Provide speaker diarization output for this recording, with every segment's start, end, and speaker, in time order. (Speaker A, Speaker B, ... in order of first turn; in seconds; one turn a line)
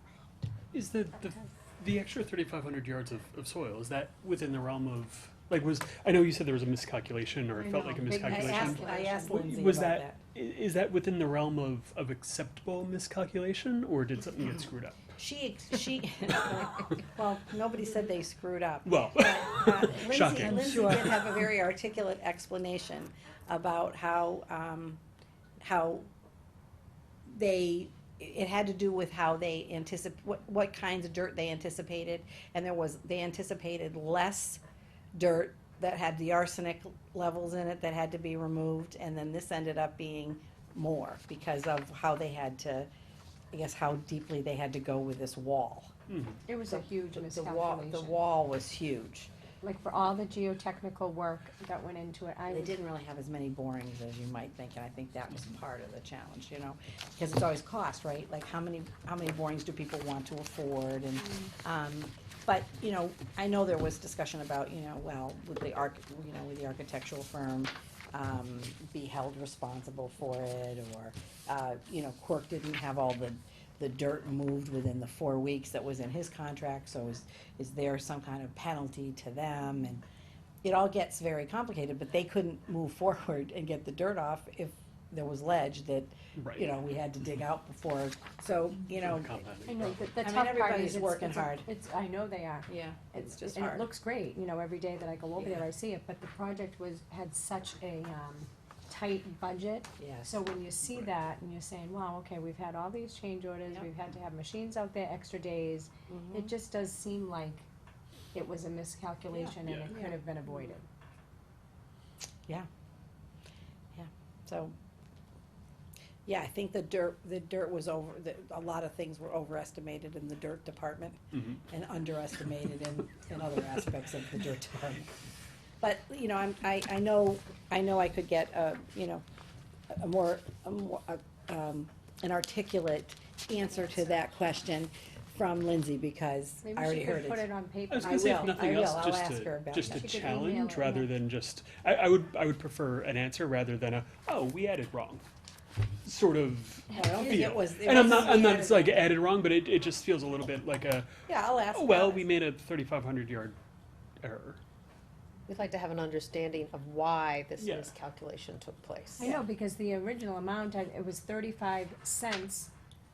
Speaker A: 0.7-15.1
Speaker B: 7.5-9.3
Speaker C: 8.2-10.2
Speaker C: 15.2-25.0
Speaker A: 18.9-21.4
Speaker C: 25.6-26.1
Speaker C: 27.3-34.6
Speaker C: 35.1-42.9
Speaker C: 43.5-45.9
Speaker A: 46.1-46.4
Speaker B: 46.5-48.2
Speaker C: 46.7-49.3
Speaker B: 49.6-52.8
Speaker C: 52.5-80.0
Speaker C: 80.6-89.3
Speaker A: 86.4-86.6
Speaker A: 88.9-90.1
Speaker B: 89.7-107.7
Speaker C: 90.2-91.7
Speaker C: 92.7-93.9
Speaker C: 95.3-95.6
Speaker C: 100.0-100.3
Speaker C: 106.1-106.5
Speaker B: 108.3-110.8
Speaker C: 109.3-110.7
Speaker A: 109.6-110.0
Speaker C: 113.9-114.7
Speaker C: 116.2-125.1
Speaker C: 125.8-129.2
Speaker C: 129.9-140.3
Speaker B: 136.6-138.1
Speaker A: 137.9-145.2
Speaker B: 139.9-141.1
Speaker A: 146.0-151.1
Speaker C: 146.9-149.0
Speaker C: 151.3-152.3
Speaker A: 151.7-153.6
Speaker A: 154.2-154.6
Speaker D: 155.5-159.1
Speaker B: 155.6-162.7
Speaker A: 157.6-157.9
Speaker C: 159.2-159.4